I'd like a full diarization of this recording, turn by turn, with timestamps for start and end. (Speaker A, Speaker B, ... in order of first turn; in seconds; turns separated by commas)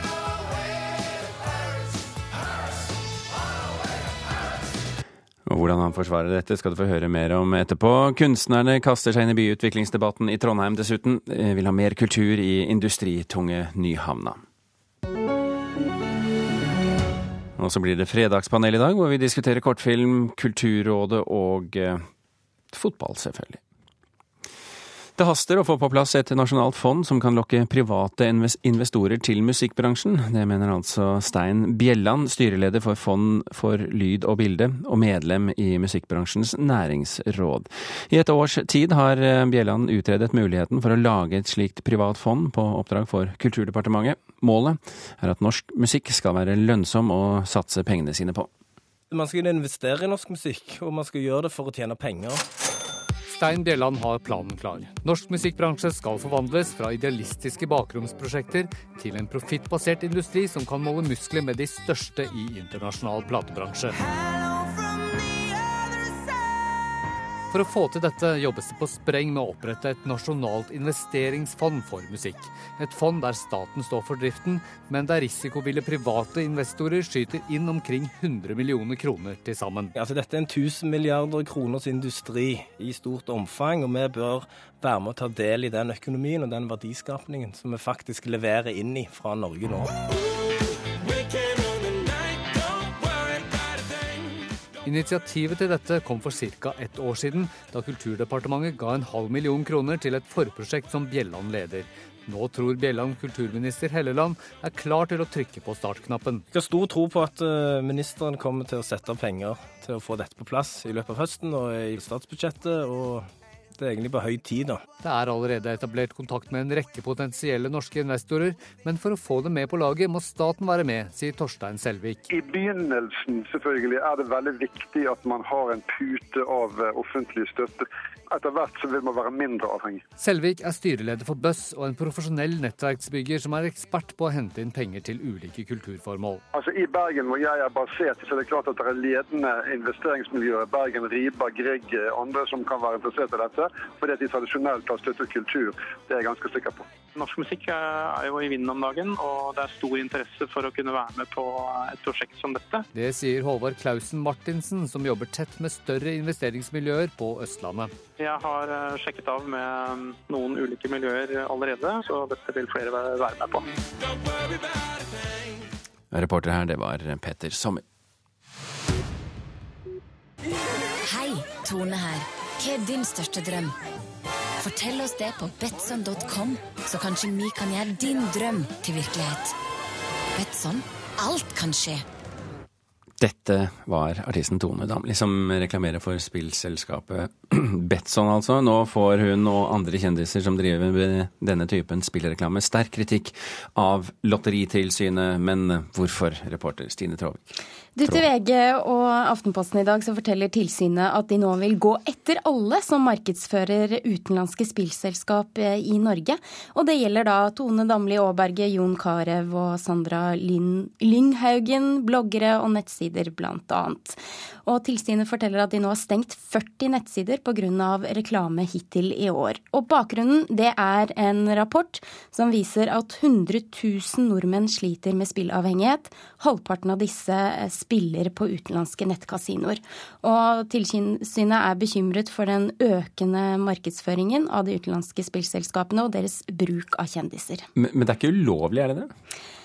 Speaker A: 5.5-14.4, Speaker A: 17.6-22.0, Speaker A: 22.7-23.6, Speaker A: 25.2-48.5, Speaker B: 49.1-52.4, Speaker C: 53.3-64.0, Speaker C: 67.5-79.9, Speaker B: 79.9-90.0, Speaker B: 91.3-92.1, Speaker C: 94.8-106.5, Speaker B: 106.5-114.8, Speaker C: 115.0-122.2, Speaker D: 122.3-130.0, Speaker C: 130.2-136.4, Speaker D: 136.5-146.9, Speaker E: 147.1-152.8, Speaker C: 152.9-157.9, Speaker E: 158.2-163.7, Speaker A: 166.1-167.8, Speaker F: 171.1-173.7, Speaker F: 174.6-179.5, Speaker F: 180.3-182.0, Speaker A: 183.2-197.5, Speaker G: 197.9-237.7, Speaker A: 237.8-239.1